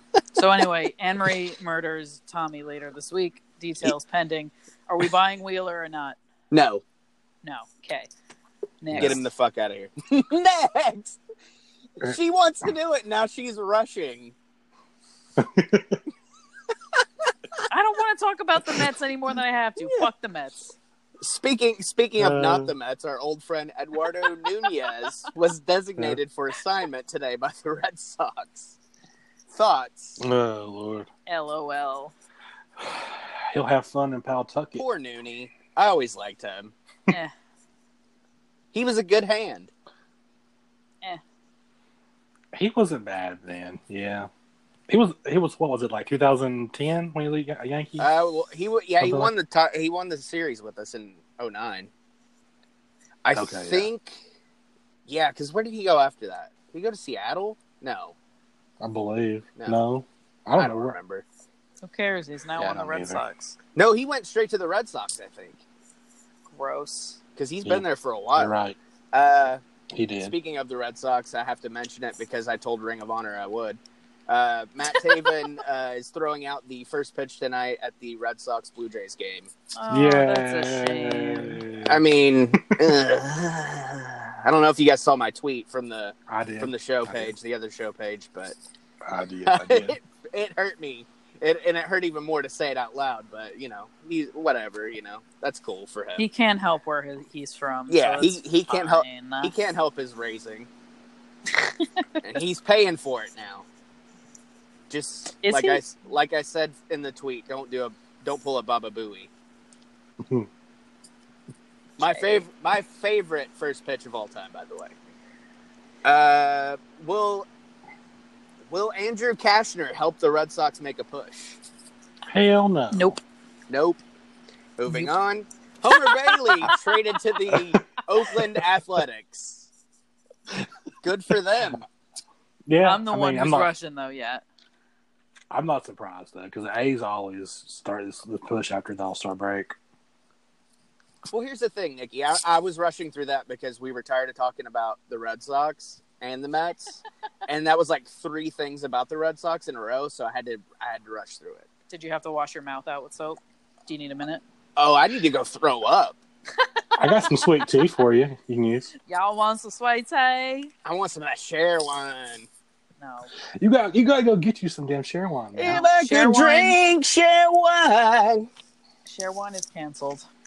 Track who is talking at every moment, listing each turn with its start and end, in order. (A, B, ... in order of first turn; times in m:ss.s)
0:00.4-0:06.2 A
0:06.5-0:06.8 B
0:07.4-0:08.1 A
0:08.8-0:09.2 A
0:08.9-0:09.2 C
0:09.0-0:11.2 B
0:12.0-0:14.4 B
0:15.4-0:16.0 C
0:17.7-0:20.8 A
0:21.2-0:28.8 B
0:22.2-0:22.7 C
0:29.5-0:30.2 B
0:30.2-0:31.1 C
0:31.3-0:32.1 A
0:32.8-0:34.8 C
0:34.8-0:36.7 B
0:38.7-0:39.7 B
0:42.5-0:44.3 C
0:44.9-0:48.1 C
0:48.0-0:51.9 B
0:49.0-0:49.3 C
0:53.2-0:54.2 B
0:53.4-0:53.9 C
0:55.1-0:58.2 B
0:58.8-1:01.0 C
0:59.6-0:59.8 B
1:00.6-1:01.2 B
1:01.8-1:03.6 A
1:02.6-1:03.2 C
1:03.8-1:05.6 B
1:06.5-1:07.2 A
1:07.4-1:08.5 B
1:08.4-1:08.8 C
1:09.1-1:09.6 B
1:09.9-1:10.3 C
1:10.2-1:19.5 B
1:19.8-1:21.6 A
1:19.9-1:22.0 C
1:21.8-1:28.6 B
1:22.6-1:23.0 C
1:26.3-1:27.3 C
1:29.0-1:30.0 C
1:29.5-1:36.2 B
1:36.2-1:39.5 A
1:37.9-1:40.7 B
1:41.5-1:42.1 A
1:42.2-1:43.7 B
1:44.9-1:49.3 B
1:45.4-1:45.8 A
1:50.2-1:50.5 C
1:52.0-1:54.9 B
1:52.0-1:52.4 A
1:56.0-1:57.5 B
1:58.7-2:01.6 B
2:02.3-2:03.2 C
2:02.9-2:03.2 A
2:03.7-2:04.0 B
2:04.8-2:09.7 B
2:05.9-2:07.0 A
2:07.5-2:07.8 C
2:11.0-2:11.8 B
2:12.7-2:13.7 C
2:12.8-2:14.4 A
2:15.5-2:19.8 C
2:21.3-2:31.7 B
2:31.9-2:34.4 A
2:34.8-2:36.2 B
2:36.6-2:37.8 A
2:37.0-2:38.9 C
2:39.0-2:40.7 A
2:40.8-2:42.5 B
2:43.0-2:43.3 A
2:43.6-2:45.8 C
2:45.5-2:48.5 B
2:45.7-2:46.8 A
2:49.0-2:50.3 A